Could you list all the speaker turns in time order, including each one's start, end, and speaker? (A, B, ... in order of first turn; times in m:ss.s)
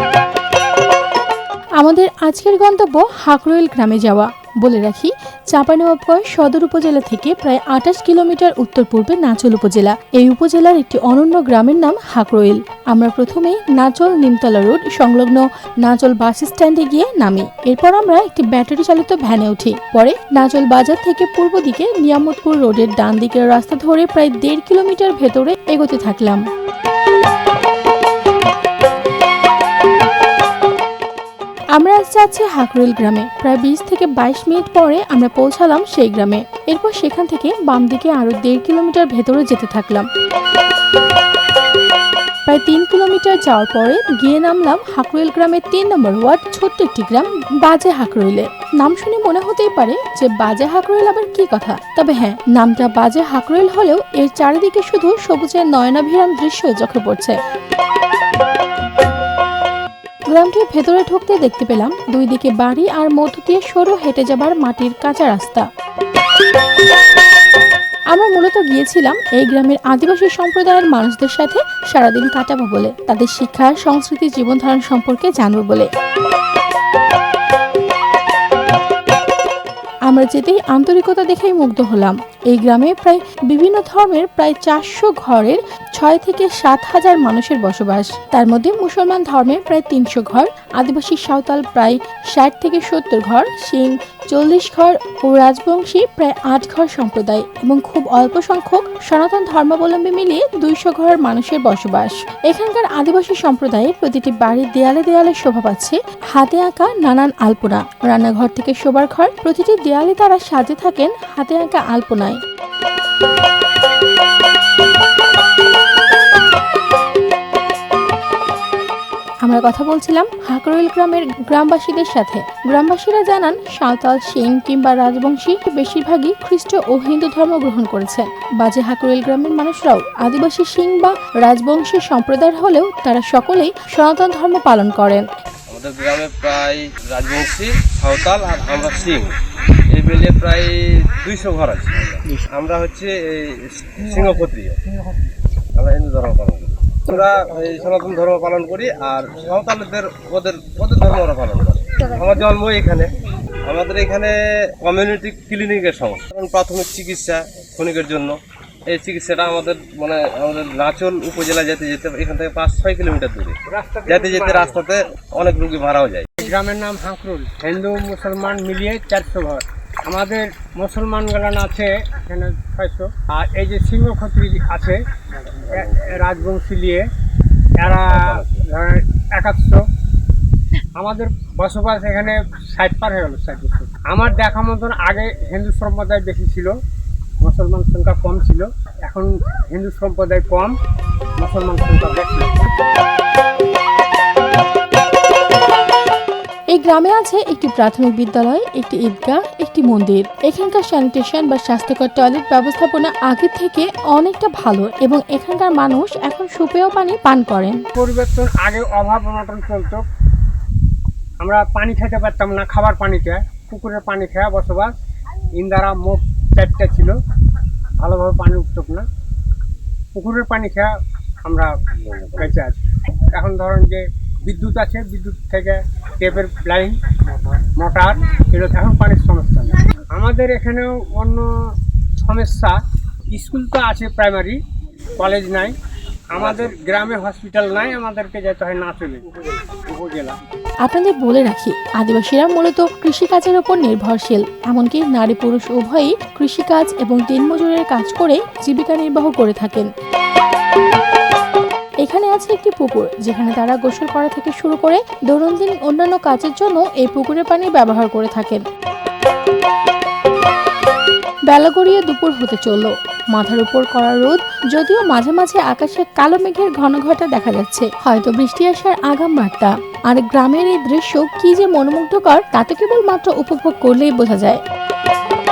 0:01.8-0:26.4 A
0:31.7-0:40.1 A
0:42.4-0:57.4 A
1:00.3-1:05.7 A
1:08.1-1:15.9 A
1:20.1-1:52.4 A
1:59.4-2:15.3 A
2:15.7-2:19.4 B
2:19.9-2:24.8 B
2:25.8-2:33.1 B
2:33.6-2:46.4 B
2:43.7-2:44.8 C
2:46.4-2:55.0 C
2:55.6-2:56.1 B
2:55.7-2:57.0 C
2:57.8-2:59.8 C
2:58.1-2:58.6 B
3:01.0-3:06.7 C
3:07.4-3:10.7 C
3:11.4-3:12.7 C
3:16.7-3:27.8 A
3:27.9-3:30.0 C
3:31.4-3:34.9 C
3:35.6-3:37.1 C
3:38.0-3:39.0 C
3:40.1-3:40.9 C
3:41.4-3:41.7 C
3:42.3-3:42.8 C
3:43.3-3:51.6 C
3:52.2-3:52.8 C
3:53.3-3:54.6 C
3:55.2-3:55.7 C
3:56.3-4:00.4 C
3:56.4-3:56.7 B
4:00.8-4:09.9 A
4:12.0-4:18.6 A
4:21.5-4:34.6 A